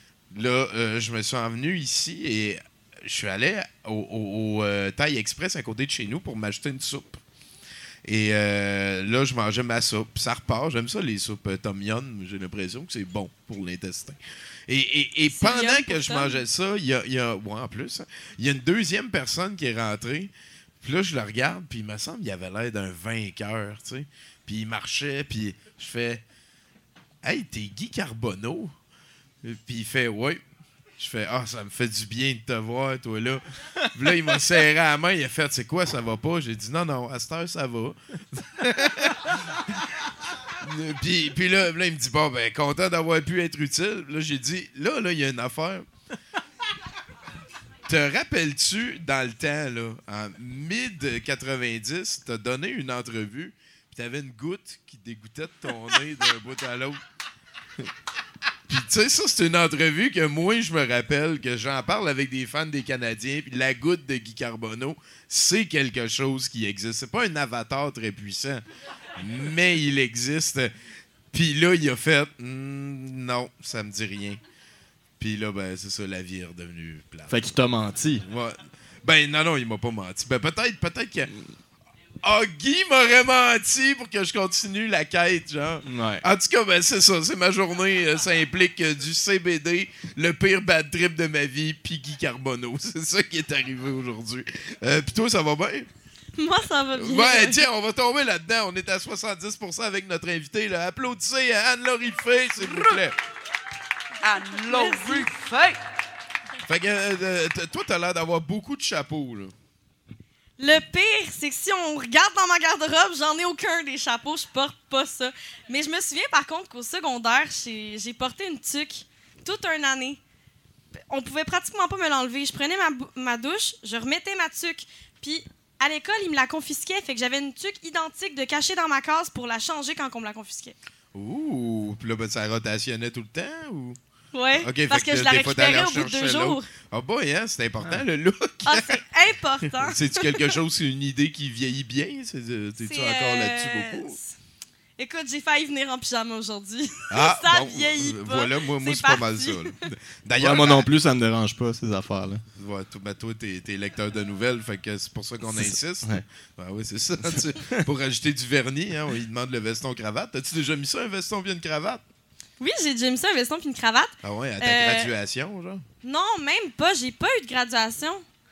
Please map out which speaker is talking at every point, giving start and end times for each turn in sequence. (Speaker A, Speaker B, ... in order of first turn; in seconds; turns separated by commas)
Speaker A: 0.3-7.2, Speaker A: 8.1-20.3, Speaker B: 15.3-16.4, Speaker A: 20.8-26.2, Speaker A: 27.2-28.7, Speaker A: 29.4-30.4, Speaker A: 31.0-39.2, Speaker A: 40.6-45.9, Speaker A: 47.9-57.0, Speaker A: 58.7-68.6, Speaker A: 69.2-70.7, Speaker A: 71.3-74.4, Speaker A: 75.2-77.3, Speaker C: 77.3-78.2, Speaker A: 78.2-81.3, Speaker A: 82.2-95.9, Speaker C: 85.8-86.2, Speaker B: 96.4-97.6, Speaker A: 97.0-103.1, Speaker D: 102.6-103.0, Speaker D: 104.2-105.8, Speaker B: 104.7-105.3, Speaker A: 106.7-109.5, Speaker B: 110.6-120.2, Speaker B: 121.1-130.8, Speaker A: 131.1-134.0, Speaker B: 134.3-136.7, Speaker A: 134.6-139.0, Speaker B: 138.6-140.2, Speaker A: 139.8-144.2, Speaker B: 142.8-144.3, Speaker B: 145.0-149.7, Speaker A: 147.1-150.9, Speaker C: 150.4-152.4, Speaker A: 152.6-162.0, Speaker C: 155.5-156.2, Speaker C: 157.3-157.7, Speaker B: 162.6-165.1, Speaker A: 164.2-165.8, Speaker B: 166.0-168.2